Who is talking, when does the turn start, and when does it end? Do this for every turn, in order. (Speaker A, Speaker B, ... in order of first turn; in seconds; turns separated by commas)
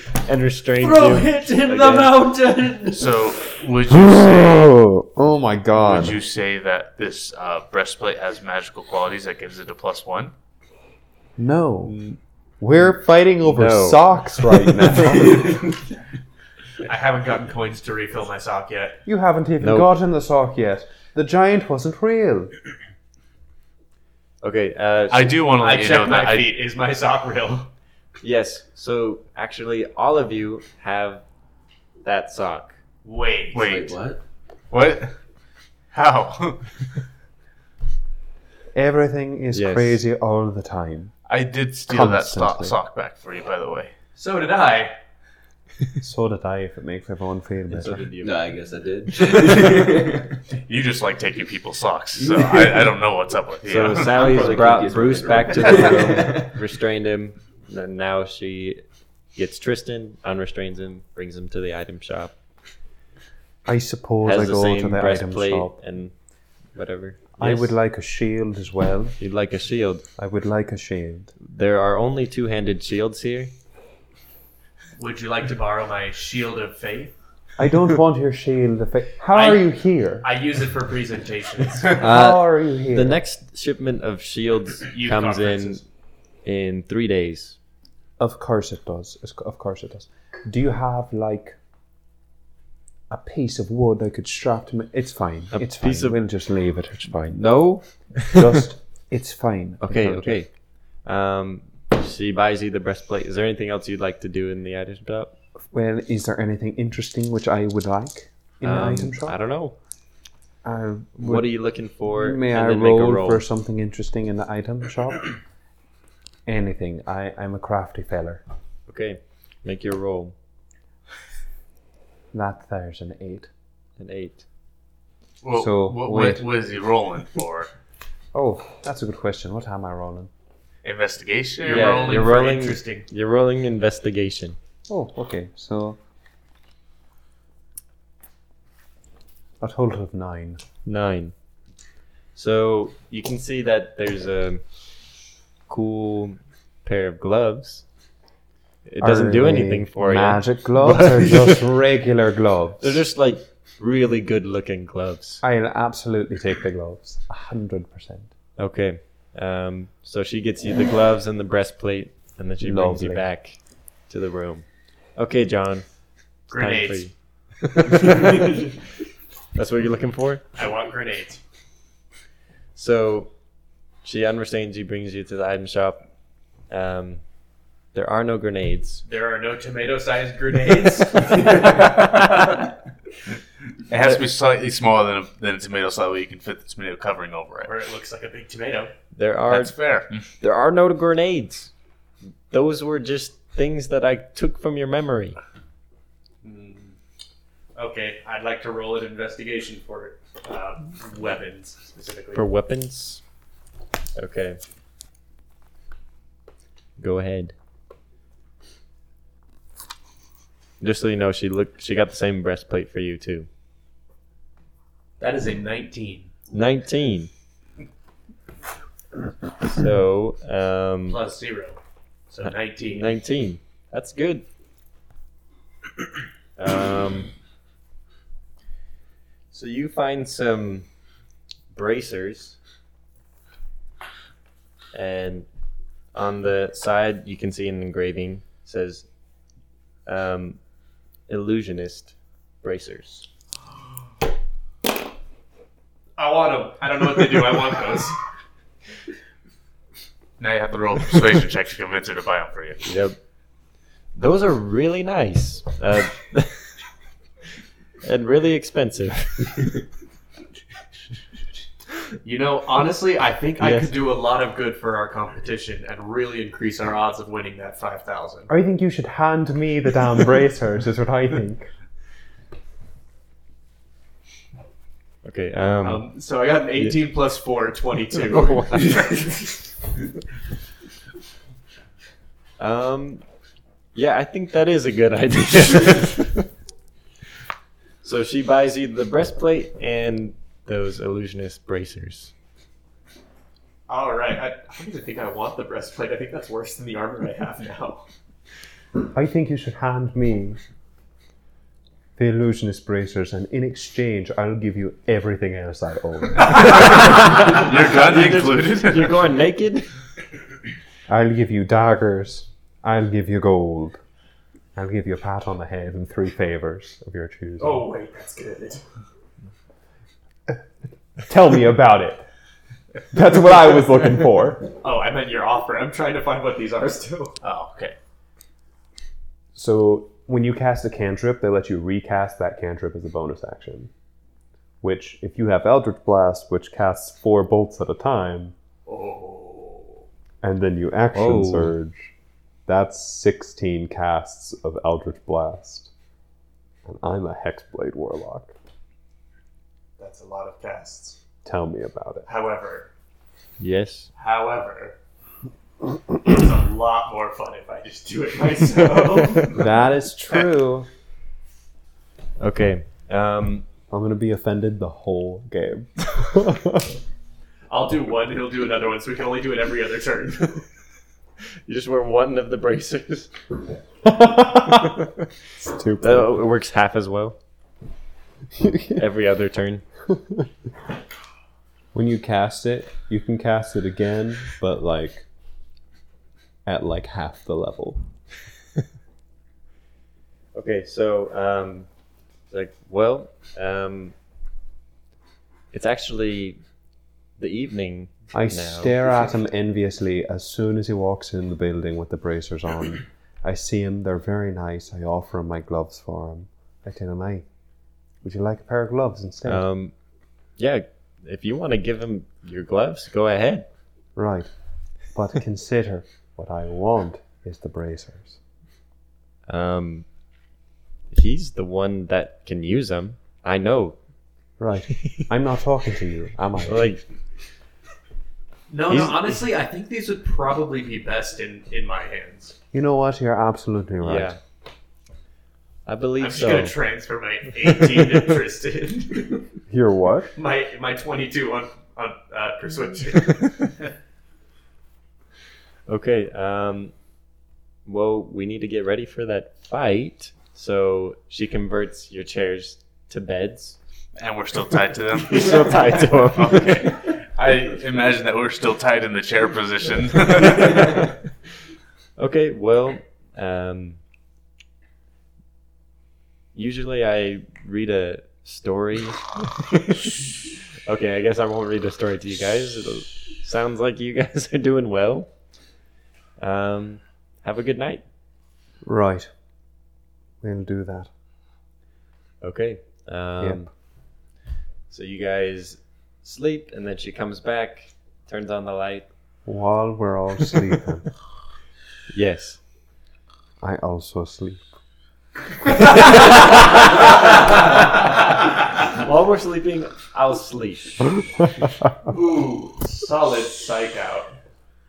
Speaker A: 0.1-2.2, Speaker B: 0.8-3.1, Speaker C: 2.9-4.6, Speaker D: 3.9-6.2, Speaker C: 5.8-10.3, Speaker D: 11.4-12.0, Speaker A: 11.9-12.2, Speaker D: 12.6-15.6, Speaker A: 13.4-15.1, Speaker B: 16.8-19.0, Speaker D: 19.1-22.5, Speaker A: 19.6-19.9, Speaker A: 24.4-25.4, Speaker C: 25.1-26.5, Speaker B: 25.6-27.7, Speaker A: 28.2-31.2, Speaker A: 32.0-32.8, Speaker B: 33.0-33.7, Speaker C: 33.5-34.0, Speaker E: 33.6-34.2, Speaker C: 34.7-35.1, Speaker C: 35.9-36.7, Speaker D: 38.7-41.1, Speaker A: 39.5-40.0, Speaker C: 41.3-43.9, Speaker D: 41.9-42.8, Speaker B: 44.2-44.9, Speaker D: 46.0-48.0, Speaker A: 47.7-48.4, Speaker E: 48.2-50.4, Speaker C: 50.6-54.4, Speaker E: 52.4-52.8, Speaker A: 53.7-58.8, Speaker E: 54.0-56.6, Speaker A: 59.4-62.3, Speaker D: 63.6-65.7, Speaker A: 64.2-66.1, Speaker A: 66.8-67.8, Speaker D: 67.4-69.2, Speaker A: 69.2-70.0, Speaker D: 70.2-71.3, Speaker A: 71.4-73.5, Speaker B: 75.0-77.1, Speaker D: 77.6-80.3, Speaker B: 79.3-81.9, Speaker A: 82.0-85.8, Speaker D: 82.0-83.2, Speaker B: 84.9-85.8, Speaker A: 86.5-87.6, Speaker D: 88.2-91.6, Speaker D: 93.1-97.5, Speaker A: 95.5-96.2, Speaker A: 97.3-98.6, Speaker D: 98.3-100.4, Speaker A: 99.8-100.5, Speaker A: 101.0-105.3, Speaker D: 105.7-109.4, Speaker A: 108.6-109.8, Speaker D: 110.6-115.4, Speaker A: 111.2-113.5, Speaker D: 116.5-118.4, Speaker A: 118.9-120.3, Speaker D: 122.3-123.5, Speaker A: 124.0-124.5, Speaker C: 125.4-127.7, Speaker D: 125.5-126.5, Speaker D: 128.3-130.3, Speaker C: 130.8-132.3, Speaker B: 131.6-133.1, Speaker A: 131.7-134.6, Speaker D: 134.9-136.0, Speaker D: 139.6-140.6, Speaker A: 140.8-141.3, Speaker A: 142.3-144.6, Speaker A: 145.7-147.8, Speaker A: 148.9-151.5, Speaker D: 149.0-153.0, Speaker A: 152.8-155.4, Speaker D: 155.4-158.3, Speaker A: 158.6-165.8, Speaker D: 162.6-163.2, Speaker B: 166.5-167.1, Speaker A: 166.5-168.7, Speaker A: 169.6-170.4, Speaker B: 170.6-171.4, Speaker A: 172.8-173.3, Speaker A: 174.0-176.0, Speaker A: 176.7-177.2, Speaker A: 177.9-179.0, Speaker B: 179.1-182.7, Speaker C: 183.9-187.7, Speaker B: 187.7-188.9, Speaker A: 189.1-189.8, Speaker C: 189.5-190.2, Speaker A: 190.4-191.7, Speaker A: 192.5-195.4, Speaker B: 196.4-197.0, Speaker B: 197.8-202.4, Speaker A: 202.3-203.2, Speaker A: 204.2-204.6, Speaker A: 207.0-207.5, Speaker A: 210.8-213.5, Speaker B: 215.2-216.3, Speaker A: 216.5-217.3, Speaker A: 219.6-221.2, Speaker B: 221.1-223.1, Speaker A: 222.4-224.4, Speaker A: 226.6-227.3, Speaker A: 229.5-230.9, Speaker A: 231.7-232.6, Speaker A: 234.9-235.5, Speaker A: 236.1-239.1, Speaker A: 240.1-240.6, Speaker A: 241.3-243.2, Speaker B: 246.2-248.2, Speaker C: 250.4-252.9, Speaker A: 252.8-253.2, Speaker A: 254.2-256.7, Speaker A: 258.0-259.8, Speaker B: 262.2-268.5, Speaker A: 263.6-263.9, Speaker D: 268.5-271.7, Speaker A: 275.2-276.1, Speaker B: 275.8-279.4, Speaker A: 278.3-279.1, Speaker A: 282.6-283.2, Speaker A: 283.9-286.4, Speaker A: 288.0-292.3, Speaker B: 293.9-298.0, Speaker D: 299.1-300.6, Speaker D: 302.2-306.8, Speaker A: 306.7-309.9, Speaker C: 307.4-309.2, Speaker D: 311.1-314.0, Speaker D: 314.8-317.9, Speaker B: 317.6-318.8, Speaker D: 321.3-322.2, Speaker D: 323.1-324.7, Speaker B: 324.8-327.4, Speaker C: 327.4-328.0, Speaker D: 329.6-333.9, Speaker D: 334.8-338.6, Speaker B: 338.9-340.0, Speaker D: 340.4-342.1, Speaker A: 341.1-341.7, Speaker D: 342.7-345.9, Speaker D: 346.9-348.5, Speaker B: 350.0-351.2, Speaker D: 351.4-352.3, Speaker B: 352.3-352.9, Speaker A: 353.6-354.1, Speaker B: 354.2-355.0, Speaker B: 356.2-359.6, Speaker D: 359.5-360.9, Speaker A: 362.4-363.6, Speaker D: 363.9-366.9, Speaker B: 367.7-370.6, Speaker A: 371.7-373.3, Speaker D: 374.0-376.4, Speaker A: 376.0-377.4, Speaker D: 378.6-379.0, Speaker A: 378.9-379.9, Speaker D: 381.9-385.3, Speaker D: 386.6-388.0, Speaker A: 390.5-391.9, Speaker A: 392.5-394.1, Speaker A: 395.7-396.6, Speaker A: 397.4-399.0, Speaker D: 398.3-407.5, Speaker D: 408.2-409.6, Speaker A: 409.5-409.9, Speaker A: 410.6-413.7, Speaker D: 414.2-414.5, Speaker D: 415.1-418.4, Speaker A: 419.5-420.1, Speaker A: 421.1-424.0, Speaker D: 424.6-427.0, Speaker A: 426.7-427.0, Speaker B: 428.7-432.6, Speaker A: 428.9-429.4, Speaker D: 432.7-434.4, Speaker A: 434.0-434.4, Speaker A: 435.9-436.7, Speaker B: 436.2-439.5, Speaker D: 439.7-440.3, Speaker B: 440.4-443.7, Speaker A: 445.9-446.9, Speaker A: 447.9-453.8, Speaker C: 454.2-461.1, Speaker A: 455.2-456.9, Speaker A: 460.6-461.1, Speaker A: 462.2-464.0, Speaker A: 466.5-470.3, Speaker A: 470.9-475.3, Speaker A: 476.4-478.0, Speaker D: 478.8-479.3, Speaker D: 480.4-481.1, Speaker A: 482.4-483.7, Speaker D: 483.4-483.6, Speaker A: 484.9-489.1, Speaker D: 489.5-491.1, Speaker A: 492.1-492.6, Speaker D: 493.6-494.6, Speaker A: 496.1-497.0, Speaker A: 498.9-501.1, Speaker B: 502.1-504.3